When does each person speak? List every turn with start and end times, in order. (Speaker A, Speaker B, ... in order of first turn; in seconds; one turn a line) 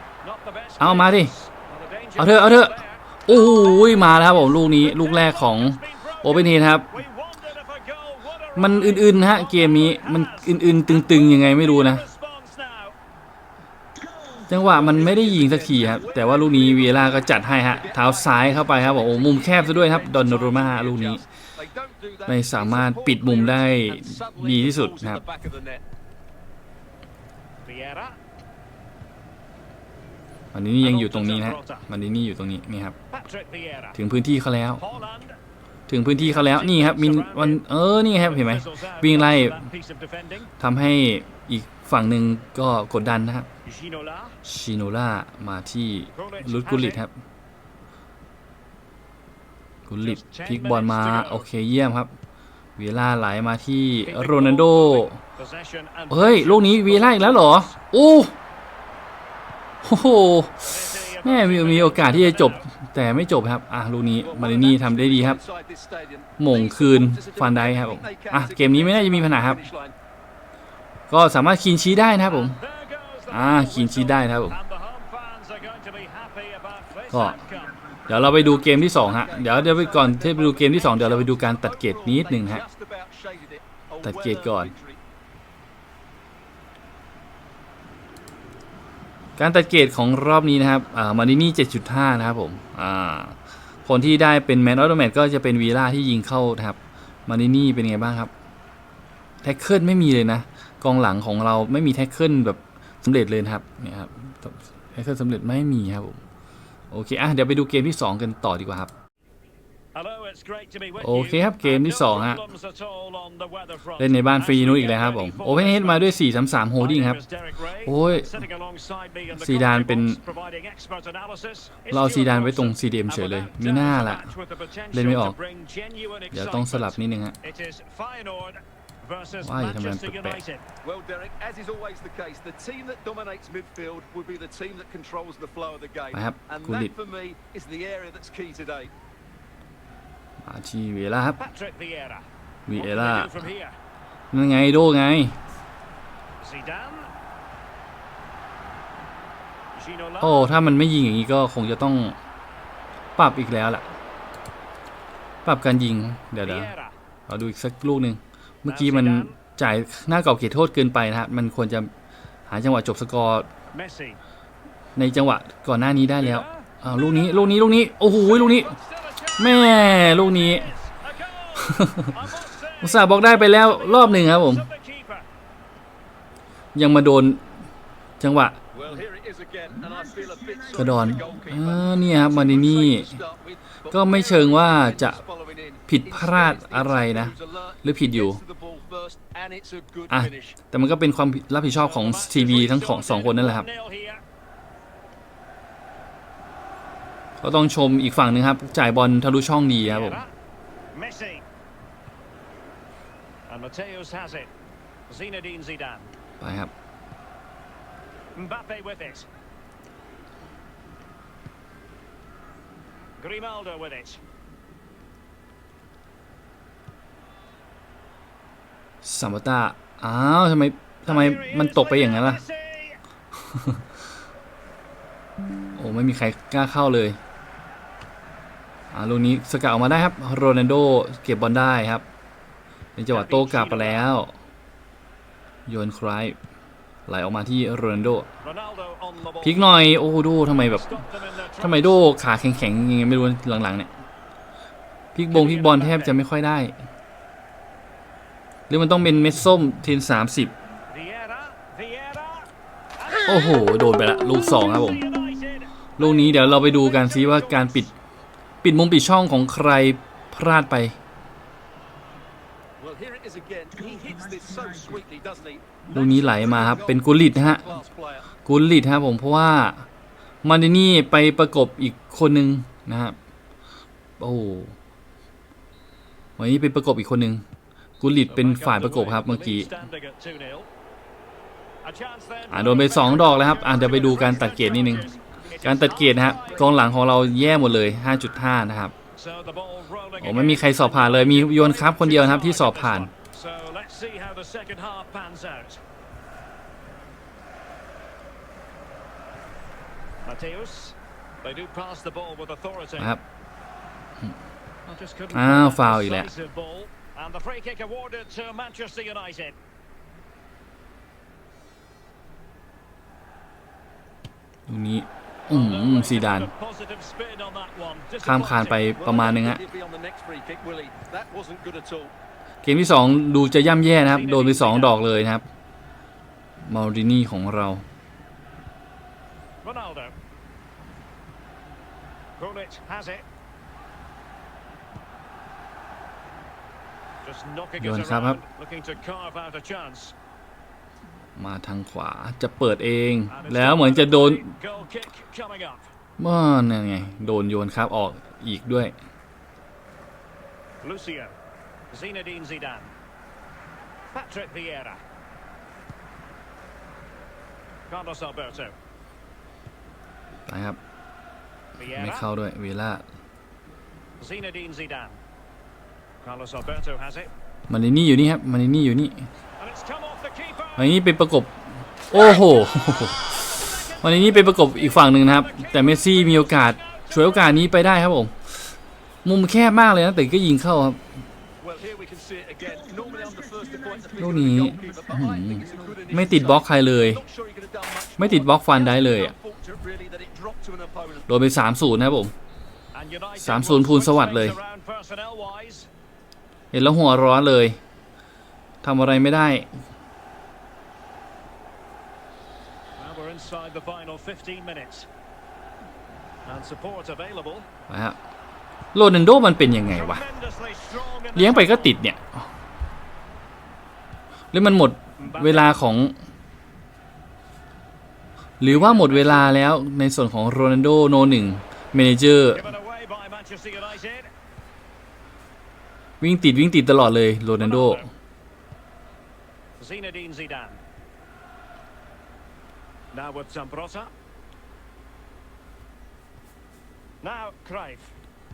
Speaker A: 0.2-13.0
Speaker B: 0.8-1.3
Speaker B: 2.2-6.9
Speaker B: 8.6-12.1
Speaker B: 14.5-21.2
Speaker C: 14.7-25.8
Speaker B: 22.3-25.2
Speaker A: 27.6-28.2
Speaker B: 30.5-33.0
Speaker A: 30.8-31.9
Speaker A: 33.1-34.0
Speaker B: 33.9-34.9
Speaker A: 34.8-35.4
Speaker B: 35.9-39.7
Speaker A: 36.1-37.6
Speaker A: 38.2-40.5
Speaker B: 40.6-43.5
Speaker A: 43.6-44.4
Speaker B: 44.4-47.1
Speaker A: 46.1-47.0
Speaker B: 49.9-52.1
Speaker A: 50.0-51.5
Speaker B: 52.8-55.2
Speaker A: 54.0-57.8
Speaker B: 56.1-58.4
Speaker B: 59.8-65.4
Speaker A: 60.6-62.7
Speaker C: 64.2-70.0
Speaker B: 66.4-69.6
Speaker B: 71.1-72.6
Speaker A: 72.3-77.8
Speaker B: 73.3-74.6
Speaker B: 77.1-77.4
Speaker B: 78.1-82.6
Speaker C: 78.8-85.0
Speaker B: 84.0-84.7
Speaker B: 89.4-98.3
Speaker B: 99.4-106.2
Speaker B: 106.9-108.9
Speaker A: 110.0-116.1
Speaker B: 111.0-112.4
Speaker B: 114.0-117.2
Speaker A: 116.8-130.7
Speaker B: 117.8-118.4
Speaker B: 119.3-120.2
Speaker B: 121.9-124.3
Speaker B: 124.9-125.4
Speaker B: 126.3-127.4
Speaker B: 129.4-130.4
Speaker C: 130.8-138.9
Speaker B: 136.1-136.9
Speaker B: 140.4-141.4
Speaker A: 141.4-143.8
Speaker B: 142.7-143.5
Speaker B: 144.3-145.4
Speaker A: 146.4-147.1
Speaker A: 149.7-150.4
Speaker B: 150.2-152.2
Speaker B: 153.2-153.8
Speaker B: 155.4-156.7
Speaker A: 156.4-156.9
Speaker B: 157.3-161.9
Speaker A: 158.7-159.4
Speaker B: 162.5-163.5
Speaker A: 163.7-164.2
Speaker B: 165.0-168.8
Speaker A: 166.2-175.3
Speaker B: 169.4-170.7
Speaker B: 171.6-172.2
Speaker B: 172.8-174.7
Speaker B: 176.8-177.5
Speaker B: 178.2-178.6
Speaker C: 178.7-190.6
Speaker B: 180.7-183.2
Speaker B: 183.9-185.2
Speaker B: 185.9-188.4
Speaker B: 190.1-193.7
Speaker A: 191.8-194.2
Speaker B: 197.4-200.2
Speaker A: 199.8-200.3
Speaker A: 200.9-201.4
Speaker A: 203.5-204.5
Speaker A: 205.1-206.1
Speaker B: 206.4-206.7
Speaker A: 208.3-209.3
Speaker A: 213.2-214.2
Speaker B: 219.0-222.4
Speaker A: 221.1-223.0
Speaker B: 223.4-223.8
Speaker B: 225.8-227.2
Speaker B: 228.9-232.1
Speaker B: 233.0-234.3
Speaker A: 233.1-234.1
Speaker B: 235.7-236.4
Speaker B: 237.1-238.3
Speaker A: 238.4-239.7
Speaker B: 239.4-240.9
Speaker A: 240.5-242.1
Speaker B: 241.6-243.9
Speaker B: 245.2-246.8
Speaker A: 245.3-246.2
Speaker B: 248.7-250.6
Speaker A: 250.9-253.7
Speaker B: 253.2-255.1
Speaker A: 254.5-257.9
Speaker B: 256.0-257.9
Speaker B: 258.6-261.0
Speaker C: 262.8-268.3
Speaker B: 265.9-267.6
Speaker B: 268.5-269.9
Speaker B: 270.4-273.2
Speaker B: 274.2-274.8
Speaker B: 276.4-277.4
Speaker B: 278.0-279.9
Speaker A: 278.3-280.7
Speaker A: 281.8-286.7
Speaker B: 282.5-285.1
Speaker B: 285.6-288.9
Speaker A: 289.2-295.8
Speaker B: 290.2-293.1
Speaker A: 300.2-303.1
Speaker B: 303.0-303.2
Speaker A: 304.9-309.6
Speaker B: 305.3-306.3
Speaker B: 314.7-316.5
Speaker A: 315.5-318.9
Speaker B: 318.2-319.6
Speaker C: 318.9-322.1
Speaker B: 322.6-325.4
Speaker A: 324.1-325.1
Speaker B: 326.7-327.8
Speaker A: 329.6-330.1
Speaker A: 332.4-333.2
Speaker A: 337.2-340.1
Speaker B: 337.8-338.4
Speaker B: 341.4-344.6
Speaker A: 343.3-345.9
Speaker B: 346.2-348.9
Speaker A: 350.8-351.4
Speaker A: 351.9-352.9
Speaker A: 354.1-355.0
Speaker A: 357.9-358.8
Speaker B: 360.5-360.8
Speaker A: 361.8-362.3
Speaker B: 361.9-363.0
Speaker A: 364.2-365.2
Speaker A: 366.2-367.3
Speaker B: 367.7-369.3
Speaker A: 369.6-370.9
Speaker B: 370.8-371.5
Speaker B: 372.1-378.7
Speaker A: 372.2-377.8
Speaker B: 379.2-381.0
Speaker C: 381.6-391.3
Speaker B: 384.2-387.2
Speaker B: 388.2-389.4
Speaker B: 391.3-392.3
Speaker A: 392.9-395.9
Speaker B: 393.4-394.6
Speaker B: 396.7-397.8
Speaker B: 398.8-399.7
Speaker A: 403.0-405.1
Speaker A: 406.4-407.7
Speaker B: 407.9-408.2
Speaker B: 408.9-410.2
Speaker A: 409.9-412.0
Speaker B: 411.3-412.5
Speaker B: 414.5-416.1
Speaker A: 415.2-415.8
Speaker B: 418.6-422.7
Speaker A: 418.6-419.6
Speaker A: 422.5-424.3
Speaker B: 426.2-428.1
Speaker A: 427.6-428.1
Speaker A: 429.8-430.8
Speaker A: 433.1-434.1
Speaker A: 437.2-438.1